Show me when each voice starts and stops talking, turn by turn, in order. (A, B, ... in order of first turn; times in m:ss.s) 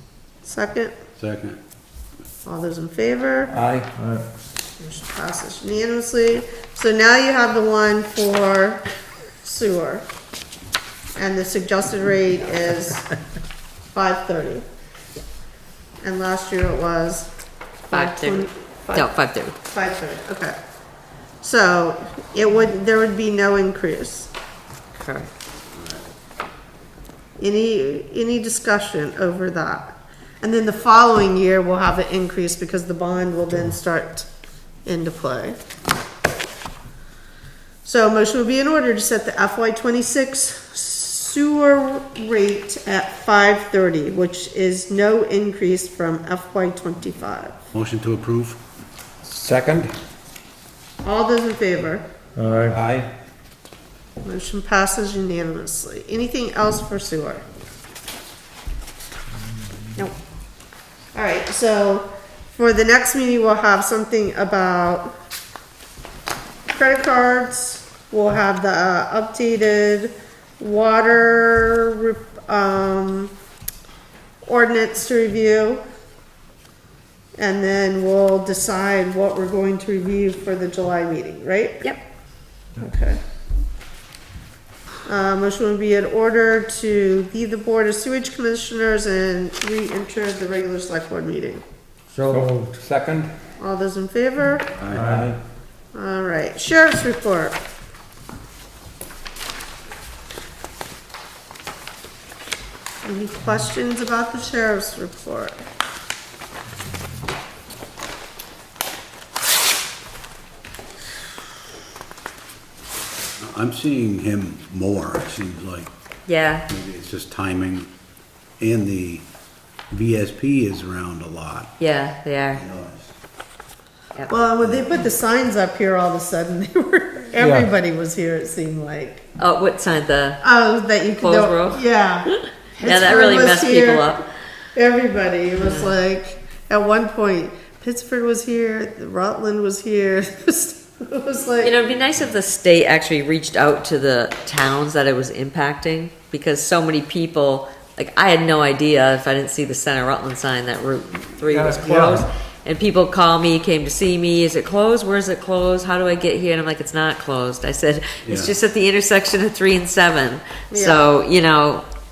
0:00.4-0:00.9 A
0:01.2-0:01.6 B
0:02.4-0:03.5 A
0:03.5-0:03.9 C
0:04.0-0:04.2 D
0:04.8-0:08.8 A
0:09.4-0:10.1 A
0:11.2-0:13.1 A
0:13.9-0:14.6 A
0:16.0-0:17.3 A
0:17.9-0:19.1 A
0:17.9-0:19.6 E
0:19.6-0:20.6 A
0:21.4-0:24.3 A
0:24.9-0:25.3 E
0:27.4-0:34.3 A
0:34.8-0:35.6 A
0:37.8-0:47.6 A
0:47.7-0:48.6 B
0:49.2-0:49.9 C
0:51.0-0:52.0 A
0:52.4-0:52.8 D
0:52.7-0:53.1 C
0:54.2-0:57.4 A
1:01.1-1:05.2 A
1:06.7-1:13.3 A
1:14.4-1:15.8 A
1:17.4-1:21.9 A
1:22.8-1:23.2 A
1:25.1-1:31.6 A
1:32.1-1:32.8 D
1:32.3-1:33.3 C
1:33.6-1:34.7 A
1:34.8-1:35.0 B
1:34.9-1:35.3 D
1:35.0-1:35.4 C
1:35.9-1:37.6 A
1:43.0-1:45.6 A
1:53.4-1:55.9 B
1:56.3-1:56.7 E
1:56.7-1:57.9 B
1:58.6-1:59.3 B
1:59.9-2:01.7 B
2:01.8-2:02.6 E
2:02.5-2:03.1 B
2:04.3-2:09.2 A
2:04.6-2:05.0 B
2:07.4-2:07.7 D
2:09.4-2:10.4 E
2:10.4-2:14.1 A
2:11.2-2:14.2 E
2:14.8-2:21.7 A
2:15.6-2:16.0 E
2:21.6-2:41.9 E
2:31.5-2:32.2 D
2:38.2-2:38.5 B
2:40.7-2:41.0 A